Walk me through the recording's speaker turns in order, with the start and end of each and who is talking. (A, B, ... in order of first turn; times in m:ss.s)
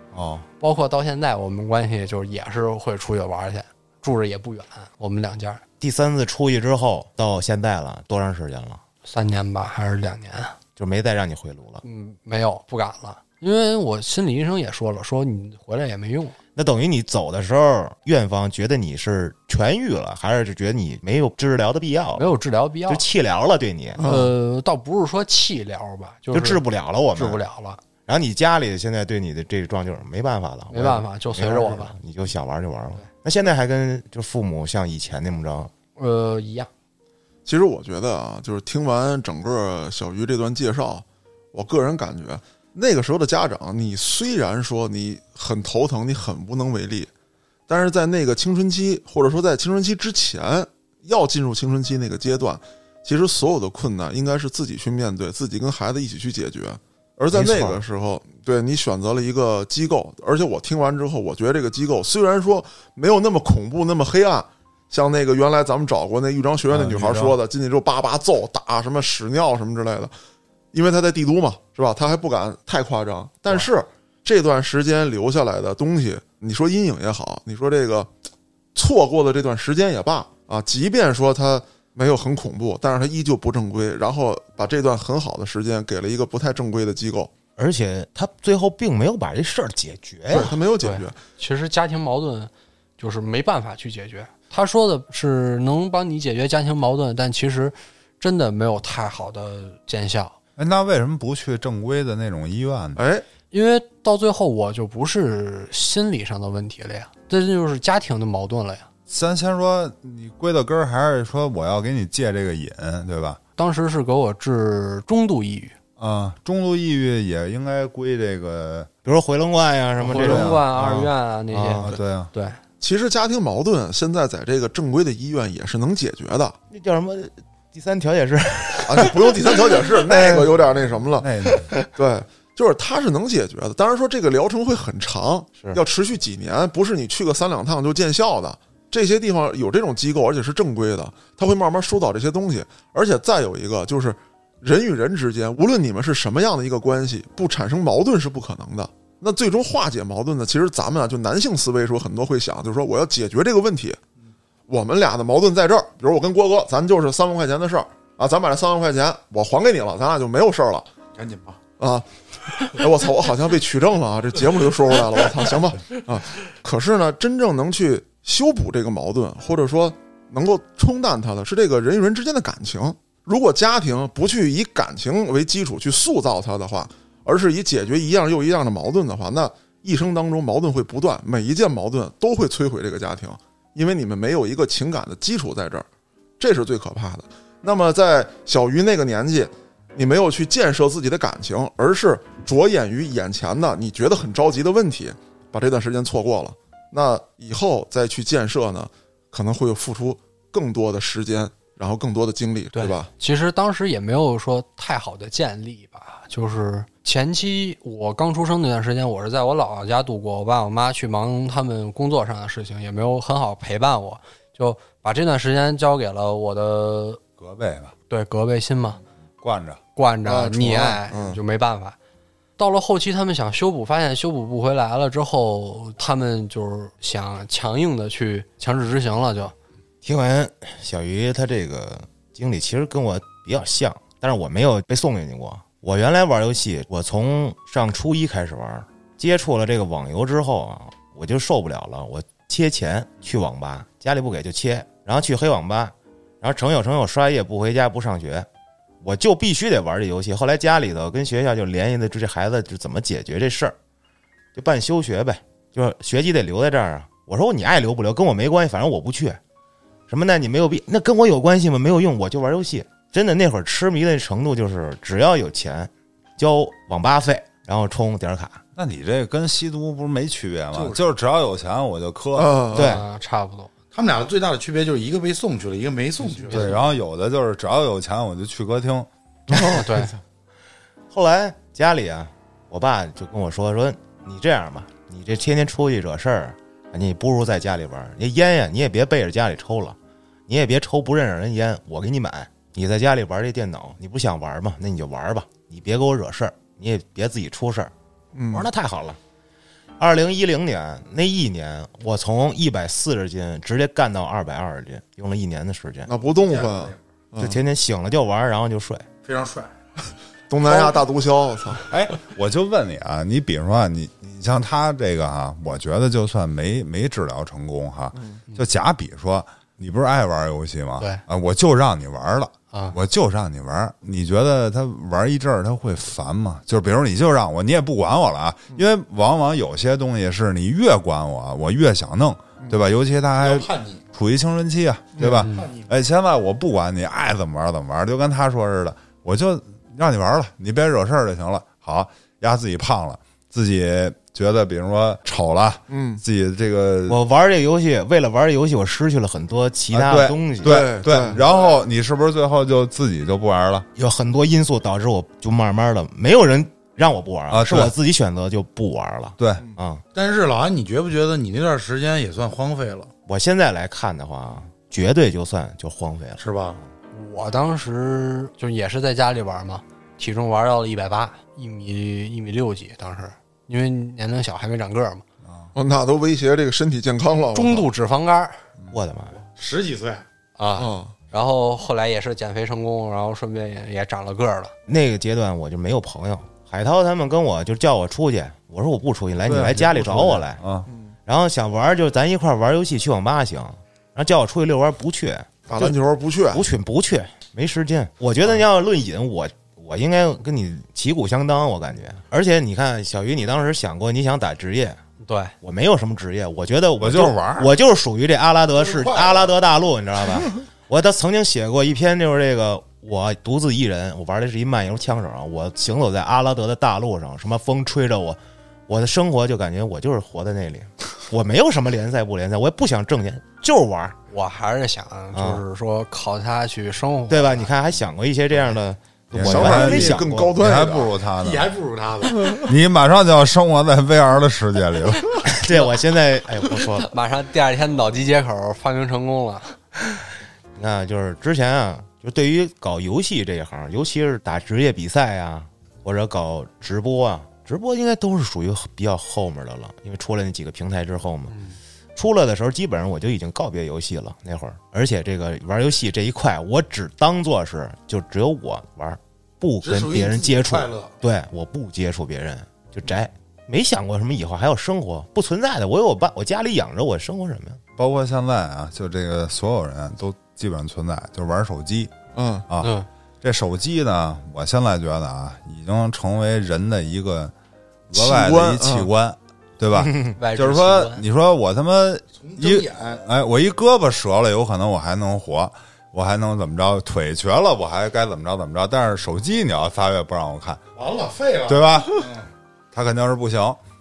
0:00.2-0:00.4 A
0:00.6-0:05.6 B
0:05.8-0:08.8 A
0:09.0-0:10.6 B
0:10.8-0:11.8 A
0:11.8-0:16.4 B
0:16.6-0:22.3 A
0:22.2-0:23.0 B
0:22.9-0:24.0 A
0:24.0-0:26.6 B
0:24.0-0:24.3 C
0:26.3-0:27.4 A
0:27.1-0:27.8 B
0:28.1-0:35.7 A
0:30.7-0:32.0 B
0:36.0-0:36.7 B
0:37.4-0:47.1 C
0:47.7-1:10.1 C
0:57.3-0:57.8 A
1:06.7-1:07.4 D
1:10.7-1:18.1 C
1:18.8-1:27.3 C
1:27.6-1:30.5 A
1:30.3-1:31.2 C
1:30.8-1:40.4 B
1:40.6-1:43.0 D
1:43.0-1:43.2 C
1:43.5-1:48.9 B
1:49.1-1:53.4 D
1:53.6-1:55.7 B
1:56.0-1:58.9 D
1:59.0-2:01.9 A
2:00.0-2:02.6 B
2:00.1-2:01.0 D
2:01.8-2:02.3 D
2:02.8-2:06.6 C
2:06.7-2:10.3 A
2:08.8-2:11.3 C
2:10.1-2:10.5 D
2:11.2-2:11.7 D
2:11.9-2:34.0 C
2:34.7-2:40.9 C
2:41.2-2:41.6 E
2:41.8-2:42.1 C
2:42.6-3:05.9 C
3:06.4-3:23.1 C
3:22.7-3:37.2 B
3:37.4-3:37.9 D
3:38.1-3:39.0 B
3:39.4-3:39.8 D
3:40.0-3:42.0 B
3:40.3-3:41.4 C
3:42.6-3:49.5 B
3:50.0-4:08.5 A
4:09.0-4:13.8 A
4:14.5-4:19.4 A
4:20.1-4:28.6 A
4:28.8-4:32.6 D
4:32.4-4:33.0 C
4:32.7-4:33.0 A
4:32.7-4:33.7 B
4:33.9-4:36.8 E
4:36.5-4:39.1 D
4:39.5-4:40.2 A
4:39.5-4:40.1 B
4:41.1-4:50.0 A
4:50.5-4:57.9 A
4:58.3-4:58.7 C
4:58.5-4:59.2 A
5:00.0-5:06.1 A
5:06.1-5:07.6 C
5:06.5-5:07.0 E
5:07.4-5:09.1 A
5:09.2-5:09.8 E
5:10.5-5:11.8 C
5:11.9-5:47.2 D
5:22.7-5:23.0 B
5:33.4-5:34.0 E
5:35.2-5:35.5 C
5:35.5-5:35.9 E
5:45.9-5:46.2 C
5:47.1-5:50.9 A
5:49.9-5:53.9 D
5:50.6-5:51.4 C
5:54.0-6:00.0 A
5:57.5-5:57.9 D
6:00.1-6:03.1 E
6:03.3-6:06.4 A
6:06.4-6:06.8 E
6:07.1-6:15.2 B
6:15.4-6:15.7 D
6:15.8-6:17.9 C
6:17.5-6:18.6 B
6:18.9-6:19.4 A
6:19.4-6:20.2 E
6:20.6-6:24.7 B
6:20.8-6:21.1 C
6:24.9-6:30.6 A
6:29.4-6:30.9 D
6:30.9-6:31.2 C
6:31.3-6:36.0 A
6:35.7-6:36.6 C
6:36.5-6:45.0 A
6:45.2-6:45.5 B
6:45.6-7:04.2 A
6:47.0-6:47.7 D
6:48.9-6:49.4 E
7:04.3-7:07.7 B
7:05.3-7:05.6 A
7:07.3-7:10.6 A
7:09.3-7:11.7 D
7:09.4-7:11.1 C
7:11.4-7:12.5 E
7:12.4-7:15.5 D
7:15.4-7:17.1 A
7:16.9-7:19.8 B
7:20.8-7:31.6 A
7:31.5-7:31.8 B
7:32.2-7:47.8 A
7:39.8-7:41.1 E
7:48.0-7:52.1 D
7:52.4-7:52.7 C
7:52.8-7:53.1 B
7:53.4-7:57.5 D
7:58.1-8:10.8 D
7:58.2-7:59.1 C
8:00.0-8:00.3 A
8:00.4-8:01.3 B
8:02.4-8:03.2 E
8:11.0-8:12.5 E
8:11.7-8:12.3 D
8:12.9-8:13.8 D